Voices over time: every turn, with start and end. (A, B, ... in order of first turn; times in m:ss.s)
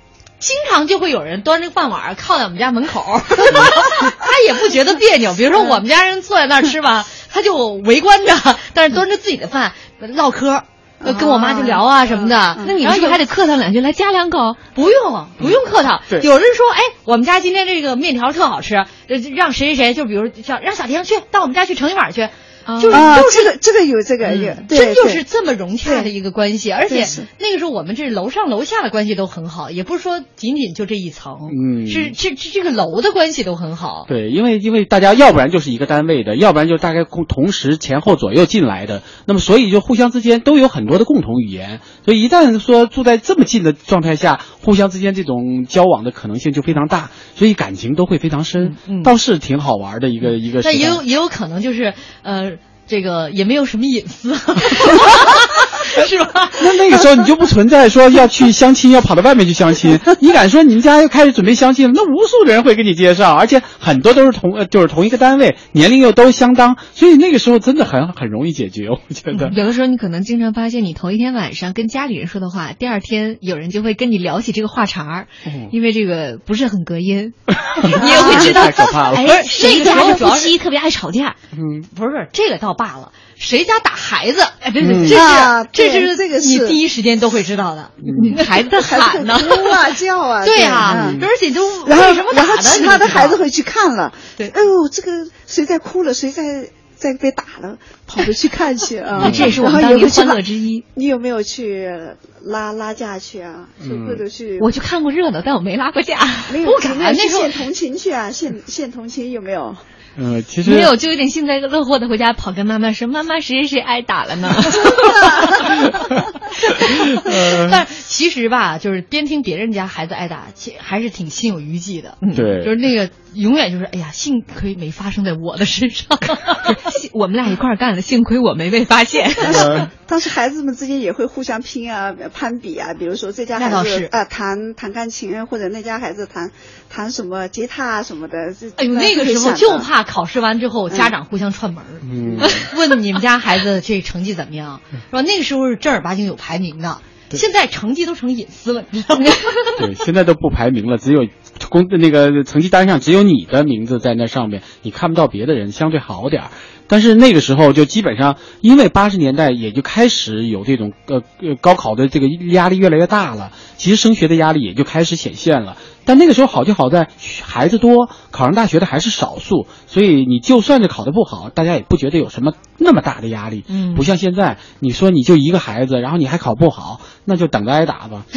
0:00.4-0:13.2 A
0:11.0-0:11.8 B
0:11.0-0:12.8 C
0:12.6-0:14.7 B
0:14.7-0:23.5 A
0:22.6-0:23.1 B
0:22.9-0:25.2 C
0:24.2-0:34.1 A
0:25.8-0:26.1 C
0:26.9-0:27.3 C
0:31.4-0:32.1 D
0:34.1-0:51.0 D
0:48.6-0:49.1 A
0:50.6-0:56.7 A
0:56.6-1:09.6 D
1:09.4-1:21.4 B
1:15.4-1:15.7 D
1:17.8-1:19.8 D
1:18.0-1:18.8 A
1:19.4-1:20.5 A
1:21.5-1:21.9 D
1:21.9-1:33.4 A
1:24.8-1:25.2 D
1:25.0-1:26.8 C
1:28.0-1:28.4 D
1:28.1-1:29.3 B
1:28.7-1:31.2 C
1:30.9-1:31.2 D
1:31.8-1:44.7 C
1:39.2-1:39.5 D
1:39.2-1:40.8 B
1:43.8-1:44.2 D
1:44.6-1:46.7 B
1:46.5-1:49.8 C
1:46.6-1:47.5 A
1:50.2-1:51.0 D
1:50.6-1:55.8 B
1:56.7-2:06.8 A
1:57.1-1:57.8 D
2:02.2-2:02.5 B
2:02.3-2:02.7 D
2:06.7-2:09.3 B
2:09.4-2:19.9 C
2:09.4-2:09.9 D
2:13.6-2:14.1 A
2:18.8-2:29.8 A
2:20.9-2:21.2 C
2:22.0-2:22.7 D
2:22.2-2:22.5 C
2:29.8-2:58.3 D
2:53.7-2:54.0 A